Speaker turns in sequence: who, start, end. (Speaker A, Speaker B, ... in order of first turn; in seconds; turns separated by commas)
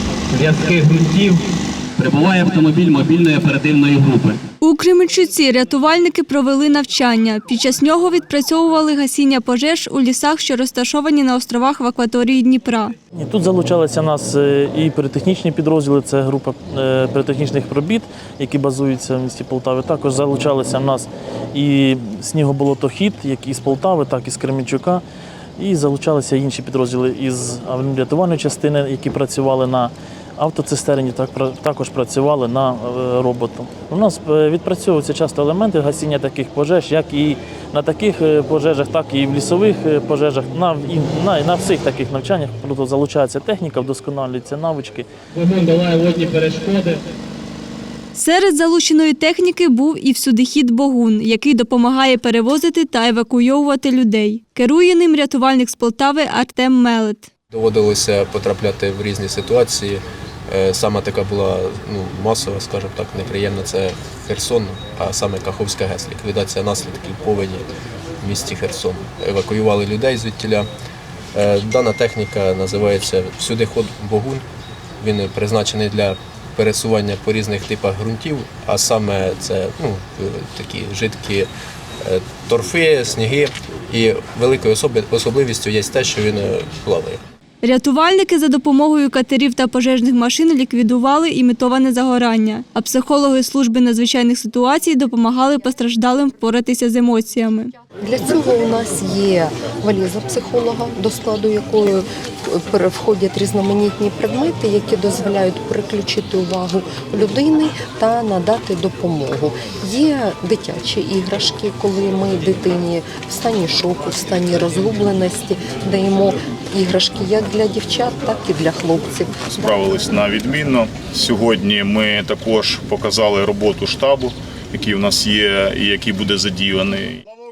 Speaker A: 0.3-1.4, Speaker A: 2.0-4.4, Speaker B: 4.6-12.9, Speaker C: 13.1-25.0, Speaker C: 25.6-45.1, Speaker A: 45.3-47.0, Speaker B: 48.1-57.3, Speaker D: 57.5-67.7, Speaker D: 68.2-70.7, Speaker D: 71.3-74.4, Speaker D: 75.0-81.5, Speaker D: 82.0-87.2, Speaker B: 87.6-97.7, Speaker E: 98.0-119.4, Speaker F: 119.5-127.2